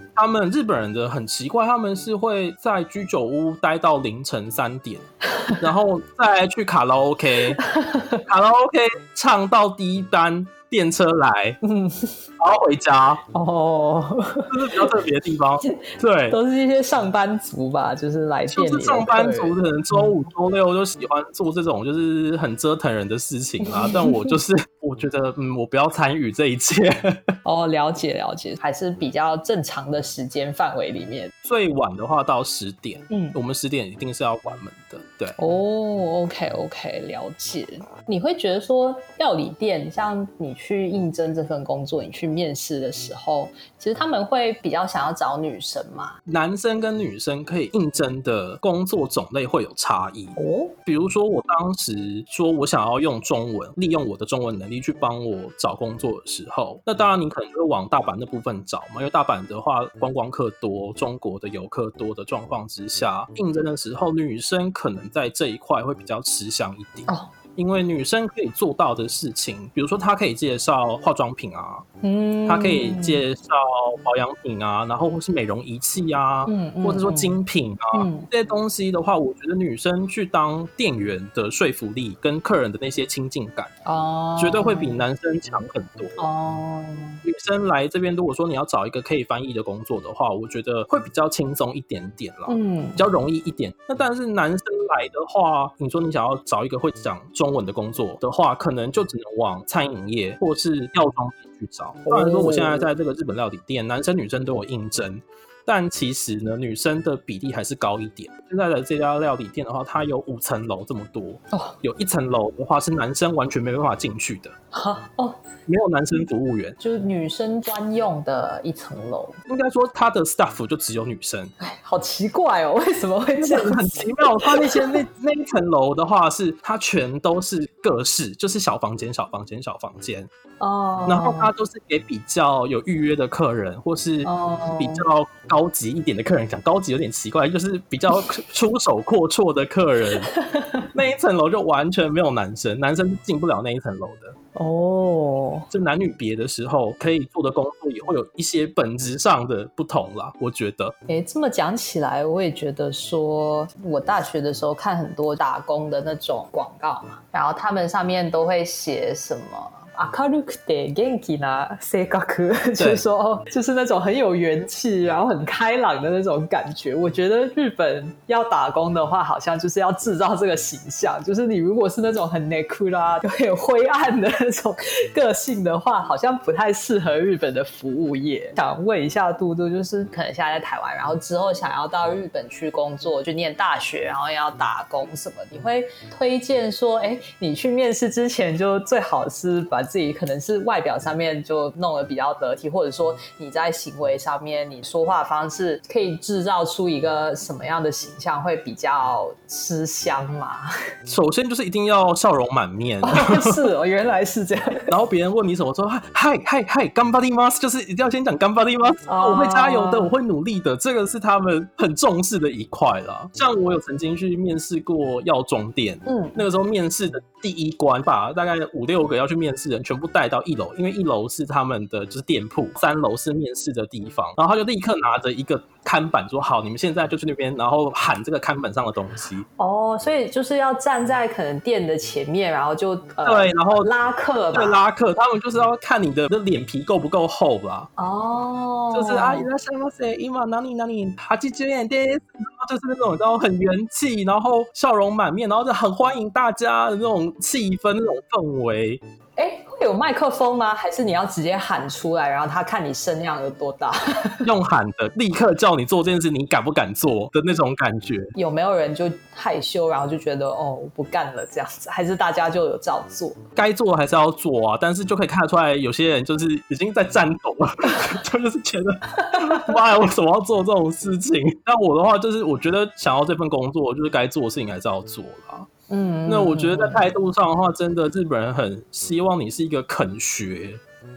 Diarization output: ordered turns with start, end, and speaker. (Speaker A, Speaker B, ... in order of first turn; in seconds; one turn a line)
Speaker A: 0.1-7.6
Speaker B: 7.6-8.2
Speaker A: 8.2-11.6
Speaker B: 11.6-12.2
Speaker A: 12.4-13.2
Speaker B: 13.3-14.9
Speaker A: 14.5-16.4
Speaker B: 15.6-20.1
Speaker A: 18.5-27.3
Speaker B: 23.6-24.4
Speaker B: 27.4-31.3
Speaker A: 31.4-35.4
Speaker B: 33.1-33.4
Speaker B: 35.4-46.2
Speaker A: 46.2-71.8
Speaker B: 50.4-50.7
Speaker B: 67.1-67.3
Speaker B: 72.0-73.2
Speaker A: 72.5-83.7
Speaker B: 76.5-77.4
Speaker B: 77.9-78.3
Speaker B: 83.8-85.0
Speaker A: 84.4-86.2
Speaker B: 86.2-87.2
Speaker A: 87.2-114.5
Speaker B: 92.5-93.0
Speaker B: 102.0-102.9
Speaker B: 114.7-115.4
Speaker A: 115.7-116.8
Speaker B: 116.8-119.4
Speaker A: 119.5-121.5
Speaker B: 121.6-125.0
Speaker A: 123.4-130.3
Speaker B: 130.6-131.5
Speaker A: 131.1-140.3
Speaker B: 134.2-135.0
Speaker B: 140.3-140.8
Speaker A: 140.9-144.3
Speaker B: 144.5-145.7
Speaker A: 145.7-150.9
Speaker B: 151.1-200.7
Speaker A: 162.8-163.0
Speaker A: 201.1-203.6
Speaker B: 203.0-204.9
Speaker A: 204.9-229.4
Speaker B: 209.1-210.1
Speaker B: 216.1-216.4
Speaker B: 229.6-234.8
Speaker A: 233.2-233.9
Speaker A: 234.5-237.9
Speaker B: 238.0-239.5
Speaker A: 238.9-249.0
Speaker B: 249.4-254.5
Speaker A: 254.4-258.3
Speaker B: 258.3-263.4
Speaker A: 263.6-275.7
Speaker B: 269.3-269.7
Speaker B: 275.9-277.0
Speaker A: 276.3-280.8